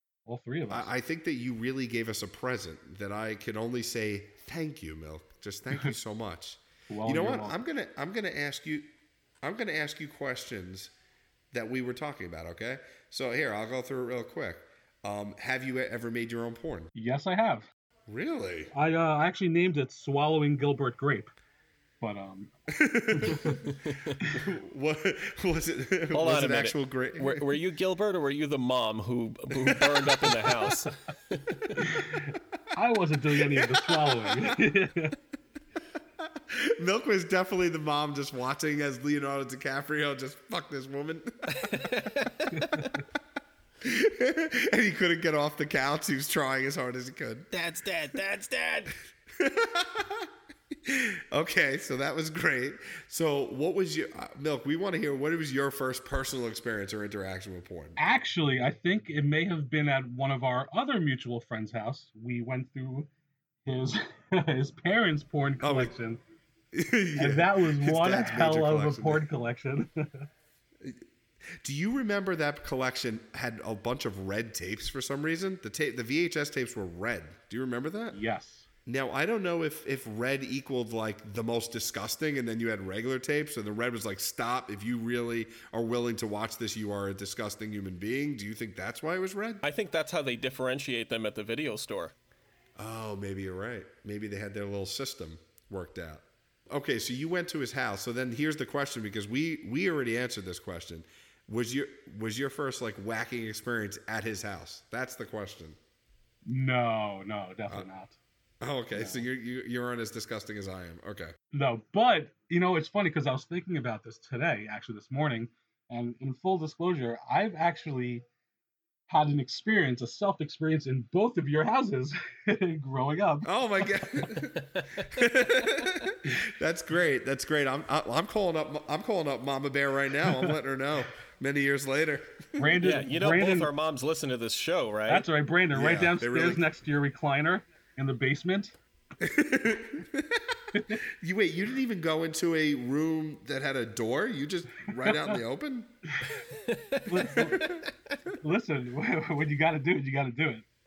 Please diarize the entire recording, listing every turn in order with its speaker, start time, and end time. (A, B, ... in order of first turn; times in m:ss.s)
0:00.2-0:00.9 A
0:00.7-0:08.9 B
0:06.9-0:07.6 A
0:09.4-0:10.9 B
0:11.5-0:16.9 B
0:17.0-0:17.7 A
0:18.1-0:18.7 B
0:18.7-0:21.3 A
0:22.0-0:22.5 A
0:22.7-0:23.7 B
0:23.1-0:23.6 A
0:23.7-0:24.2 C
0:24.2-0:27.5 B
0:26.1-0:31.7 C
0:29.6-0:30.4 B
0:31.9-0:32.2 A
0:32.7-0:35.2 A
0:33.4-0:34.6 B
0:36.2-0:42.1 B
0:41.5-0:42.6 C
0:42.6-0:42.9 A
0:42.6-0:42.8 B
0:43.8-0:47.5 B
0:47.5-0:48.9 C
0:49.4-0:50.3 B
0:50.8-0:58.0 B
0:58.0-1:03.1 A
1:03.6-1:06.2 A
1:05.6-1:05.9 B
1:06.7-1:09.3 B
1:07.2-1:10.3 A
1:11.6-1:18.2 B
1:18.1-1:18.7 A
1:18.9-1:29.6 B
1:29.6-1:32.1 C
1:32.8-1:45.8 B
1:46.4-1:48.2 A
1:48.6-1:51.4 B
1:48.9-1:49.2 A
1:51.5-1:58.2 A
1:59.1-2:04.3 A
2:03.4-2:12.9 B
2:04.6-2:05.1 C
2:12.6-2:13.7 A
2:12.8-2:15.3 C
2:15.1-2:18.8 A
2:15.7-2:16.6 B
2:19.2-2:26.0 B
2:26.4-2:28.2 C
2:27.1-2:27.7 A
2:27.4-2:27.8 B
2:28.4-2:30.6 A